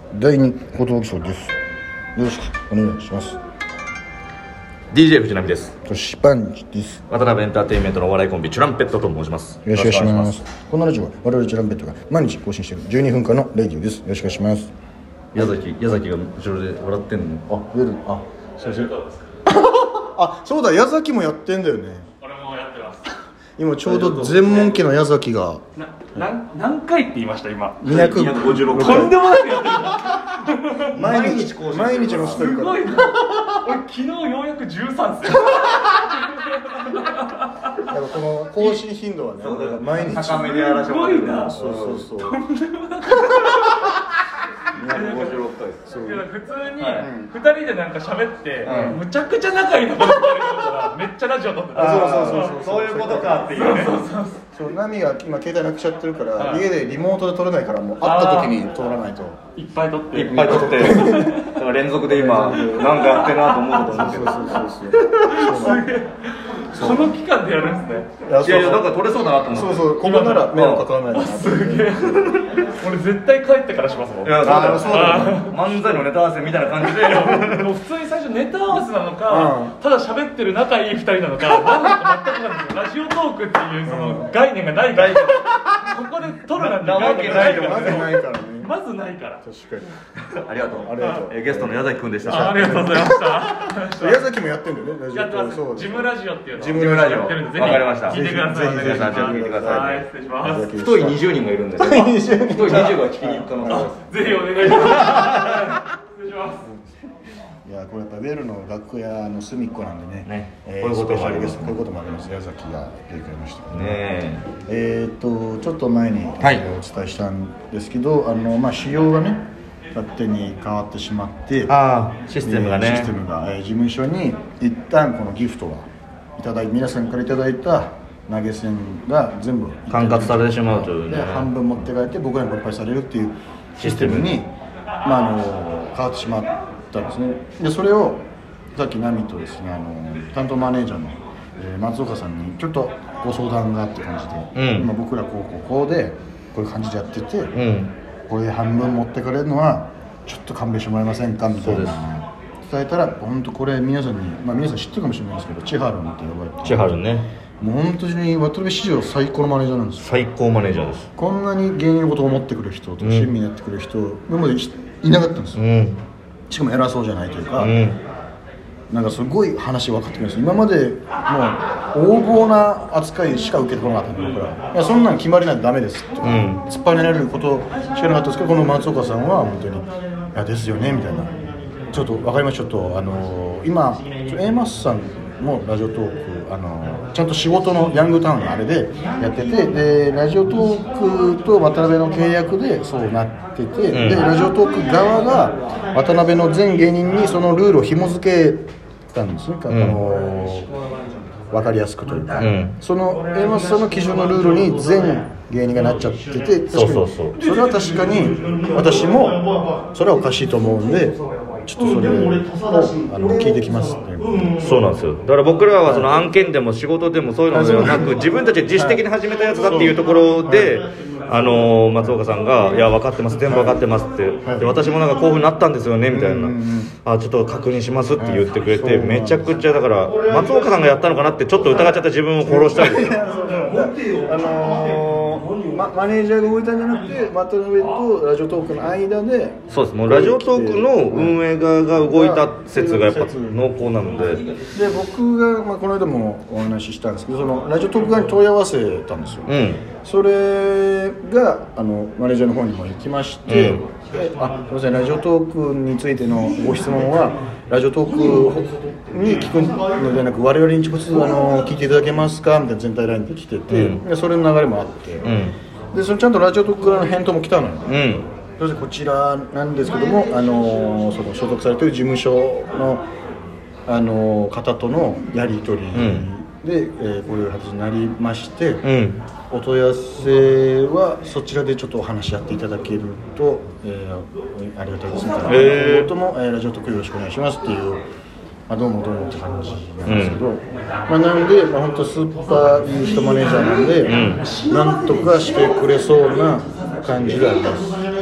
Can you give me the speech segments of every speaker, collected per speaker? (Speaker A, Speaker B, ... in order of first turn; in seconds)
Speaker A: 0.1-1.5, 2.1-3.4, 5.8-7.0, 9.6-14.7, 17.5-18.9, 19.4-22.1, 23.6-25.6, 27.8-29.3, 30.9-33.5, 37.8-40.7, 41.5-42.4, 44.8-45.3, 45.9-46.3, 47.0-47.3, 48.6-49.0, 51.7-53.5, 54.5-59.4, 60.2-61.5, 62.1-62.9, 63.9-65.9, 66.7-67.1, 68.2-69.0, 69.5-72.2, 74.4-75.4, 79.3-79.7, 83.8-84.3, 87.0-88.7, 89.4-89.9, 90.7-103.9, 107.6-114.0, 114.7-119.4, 119.9-121.7, 122.4-125.8, 126.4-147.5, 148.3-157.0, 157.6-160.1, 161.2-165.6, 166.5-167.8, 168.9-200.7, 201.5-209.4, 209.9-214.6, 215.8-216.1, 217.5-218.2, 218.7-219.0, 219.7-220.7, 223.5-223.8, 224.4-224.9, 226.1-226.9, 228.2-229.6, 231.6-243.6, 244.7-249.5, 250.0-265.3, 265.9-273.0, 273.9-278.8, 279.5-288.0, 288.7-298.1
Speaker B: 4.9-5.7, 7.1-10.4, 15.3-17.4, 23.8-24.7, 27.8-29.1, 30.9-32.5, 39.4-42.0, 44.8-45.8, 46.8-47.0, 48.6-49.0, 51.7-54.1, 60.1-64.5, 68.4-69.9, 70.5-70.8, 74.2-77.7, 85.0-85.4, 86.5-88.1, 90.3-93.0, 96.7-100.0, 100.7-105.7, 110.2-111.8, 113.7-114.5, 121.7-123.1, 129.9-131.5, 133.8-134.3, 144.5-144.9, 147.5-147.9, 151.6-152.0, 156.6-157.3, 160.0-161.1, 163.0-163.3, 165.6-166.0, 167.6-168.0, 176.2-176.6, 193.9-194.2, 199.7-200.0, 202.4-202.8, 206.7-207.3, 214.6-233.2, 239.7-244.5, 249.5-249.8, 253.5-253.8, 263.7-264.0, 265.2-265.5, 267.9-268.2, 275.9-276.3, 278.8-279.2, 285.4-286.1, 290.0-290.4, 294.1-294.5
Speaker C: 18.6-19.2, 22.2-23.1, 25.9-27.8, 28.5-30.9, 32.2-37.4, 40.3-41.5, 42.2-43.9, 44.8-52.5, 53.5-54.4, 56.4-56.6, 58.0-58.5, 59.5-61.5, 62.5-63.8, 65.2-68.1, 70.0-75.6, 76.8-89.4, 92.2-94.2, 95.1-100.7, 103.7-106.6